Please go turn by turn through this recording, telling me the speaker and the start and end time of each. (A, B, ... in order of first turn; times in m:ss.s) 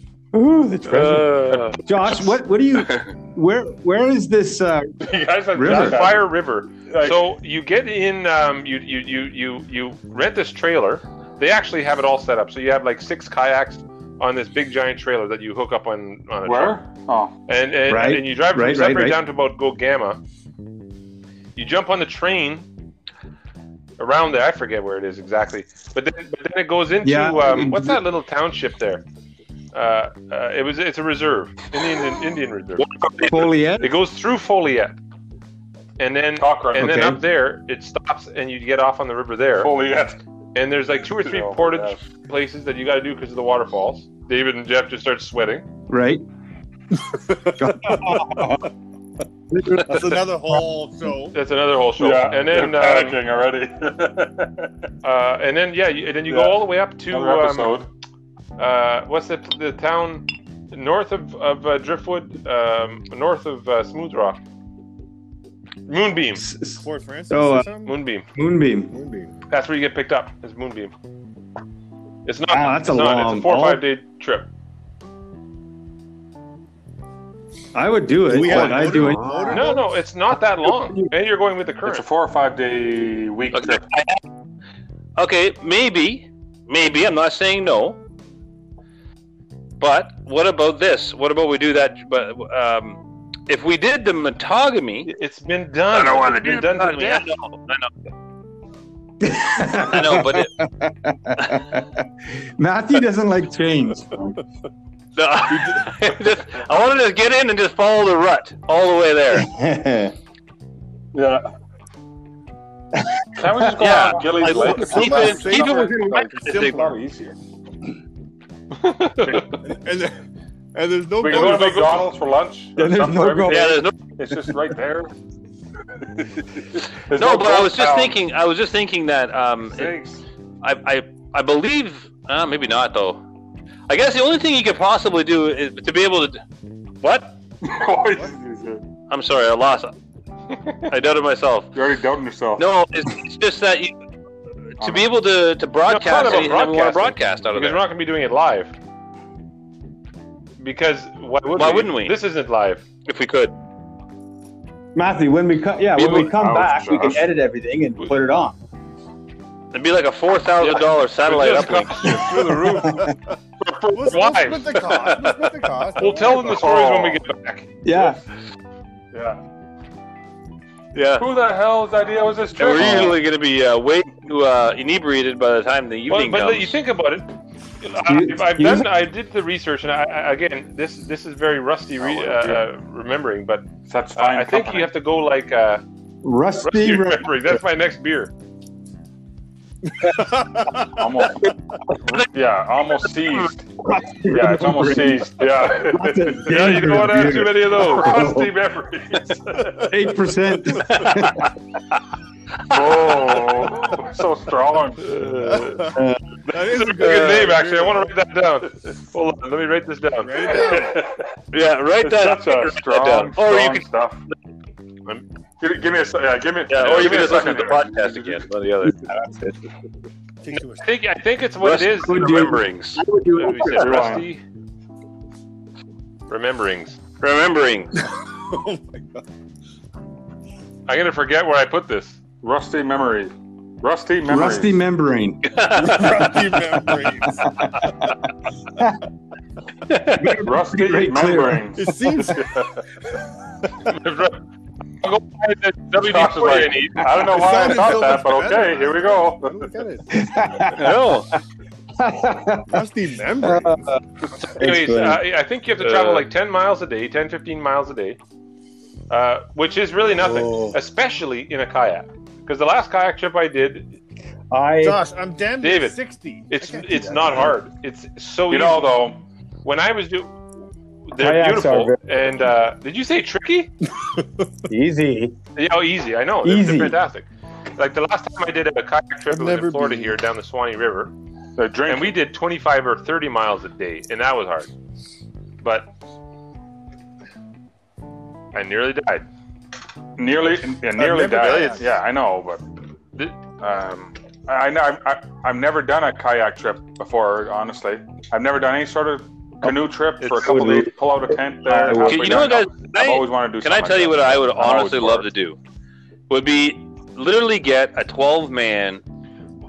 0:00.3-0:05.0 A
0:00.9-0:01.8 B
0:05.0-0:06.3 C
0:05.5-0:06.1 A
0:05.6-0:16.8 B
0:06.9-0:07.2 C
0:16.4-0:17.3 C
0:17.5-0:20.2 B
0:17.9-0:19.2 A
0:21.6-0:22.7 B
0:24.0-0:29.0 B
0:27.0-0:28.0 A
0:29.7-0:35.0 B
0:32.9-0:33.3 D
0:33.2-0:33.9 A
0:36.0-0:39.7 B
0:36.4-0:37.0 C
0:36.8-0:37.2 A
0:39.6-0:40.2 C
0:40.5-0:45.6 B
0:41.2-0:42.0 C
0:45.9-0:46.2 A
0:47.1-0:48.2 E
0:47.4-0:48.7 A
0:49.5-0:50.1 A
0:49.7-0:51.3 E
0:51.3-0:53.2 B
0:52.0-0:54.7 C
0:55.0-0:57.8 B
0:56.3-0:56.6 C
0:57.1-0:57.9 C
0:58.6-1:04.4 B
1:05.9-1:06.4 B
1:06.3-1:07.7 A
1:06.8-1:07.9 E
1:07.8-1:08.2 B
1:08.3-1:08.9 A
1:08.9-1:09.3 E
1:09.5-1:10.9 B
1:12.2-1:14.5 B
1:12.5-1:13.8 A
1:17.7-1:19.7 A
1:18.3-1:19.8 E
1:19.5-1:22.1 B
1:20.6-1:21.1 A
1:21.8-1:23.9 C
1:23.5-1:24.2 D
1:25.2-1:28.0 D
1:29.8-1:35.1 D
1:35.0-1:37.3 B
1:35.9-1:37.9 D
1:39.2-1:44.4 A
1:39.9-1:40.5 D
1:45.2-1:49.5 D
1:45.5-1:45.9 E
1:49.3-1:50.1 A
1:51.1-1:51.4 C
1:53.3-1:57.4 C
1:53.8-1:56.8 D
1:54.5-1:57.0 E
1:58.8-1:59.6 B
1:59.6-2:00.1 E
2:00.7-2:01.9 E
2:01.2-2:05.1 C
2:01.3-2:02.1 B
2:02.8-2:04.6 A
2:03.4-2:04.0 D
2:06.1-2:08.2 C
2:07.1-2:10.0 D
2:09.7-2:10.2 C
2:10.6-2:13.2 D
2:13.9-2:16.4 D
2:17.0-2:17.3 D
2:17.6-2:18.8 C
2:19.1-2:19.9 D
2:20.9-2:21.7 D
2:21.7-2:22.7 C
2:22.6-2:24.0 D
2:24.8-2:27.8 D
2:25.9-2:28.7 B
2:30.6-2:32.8 B
2:31.6-2:32.2 D
2:33.0-2:33.5 D
2:34.9-2:38.6 A
2:36.0-2:37.2 C
2:39.7-2:42.2 D
2:40.6-2:45.4 B
2:42.8-2:43.1 E
2:42.8-2:43.1 A
2:43.9-2:46.6 E
2:46.0-2:47.7 B
2:46.4-2:47.2 C
2:47.8-2:48.2 A
2:49.1-2:49.4 C
2:50.9-2:51.3 D
2:51.2-2:53.2 C
2:52.6-2:56.8 D
2:56.1-2:57.3 B
2:57.8-3:05.8 B
2:58.1-2:58.9 A
3:02.0-3:02.7 C
3:03.9-3:04.9 C
3:06.2-3:07.6 A
3:06.6-3:08.3 B
3:09.9-3:10.9 E
3:10.9-3:13.8 C
3:13.8-3:18.5 A
3:14.3-3:16.9 C
3:16.5-3:18.3 B
3:17.8-3:19.9 C
3:19.8-3:21.5 A
3:22.7-3:25.2 C
3:25.0-3:25.9 B
3:25.3-3:28.1 E
3:25.9-3:26.2 A
3:26.6-3:30.6 B
3:30.2-3:31.0 E
3:30.5-3:31.3 C
3:31.5-3:33.9 D
3:32.0-3:34.2 C
3:35.6-3:38.4 C
3:36.7-3:39.0 D
3:36.8-3:37.7 B
3:39.1-3:39.5 A
3:40.4-3:40.9 E
3:40.5-3:42.5 B
3:41.6-3:43.0 D
3:42.0-3:44.2 A
3:43.3-3:44.4 B
3:43.7-3:44.3 C
3:46.3-3:47.0 B
3:47.2-3:48.0 D
3:48.0-3:49.2 E
3:50.9-3:52.2 B
3:52.4-3:54.7 C
3:54.2-3:56.4 A
3:55.4-3:56.2 D
3:55.7-3:57.7 E
3:57.2-3:57.9 A
4:00.1-4:01.7 A
4:00.3-4:02.7 C
4:01.8-4:02.7 E
4:03.8-4:04.4 B
4:05.0-4:07.3 B
4:06.0-4:09.7 C
4:07.3-4:10.2 E
4:10.1-4:11.1 A
4:10.7-4:11.3 D
4:12.0-4:12.9 A
4:12.7-4:13.9 E
4:13.4-4:14.0 A
4:14.4-4:18.2 B
4:14.6-4:15.2 A
4:15.8-4:16.2 D
4:19.1-4:23.9 B
4:24.5-4:25.0 A
4:24.8-4:27.6 E
4:25.6-4:26.0 B
4:26.5-4:29.0 B
4:28.5-4:29.2 C
4:29.6-4:30.4 B
4:31.1-4:33.7 B
4:31.2-4:32.0 A
4:34.7-4:35.4 A
4:35.5-4:41.1 B
4:36.4-4:37.0 A
4:39.3-4:40.2 E
4:41.6-4:42.2 C
4:41.8-4:44.7 B
4:45.6-4:45.9 B
4:48.5-4:49.2 B
4:50.2-4:52.6 C
4:50.9-4:51.9 E
4:53.6-5:05.3 C
5:00.2-5:00.5 B
5:00.4-5:02.5 A
5:02.0-5:05.6 D
5:06.3-5:09.0 D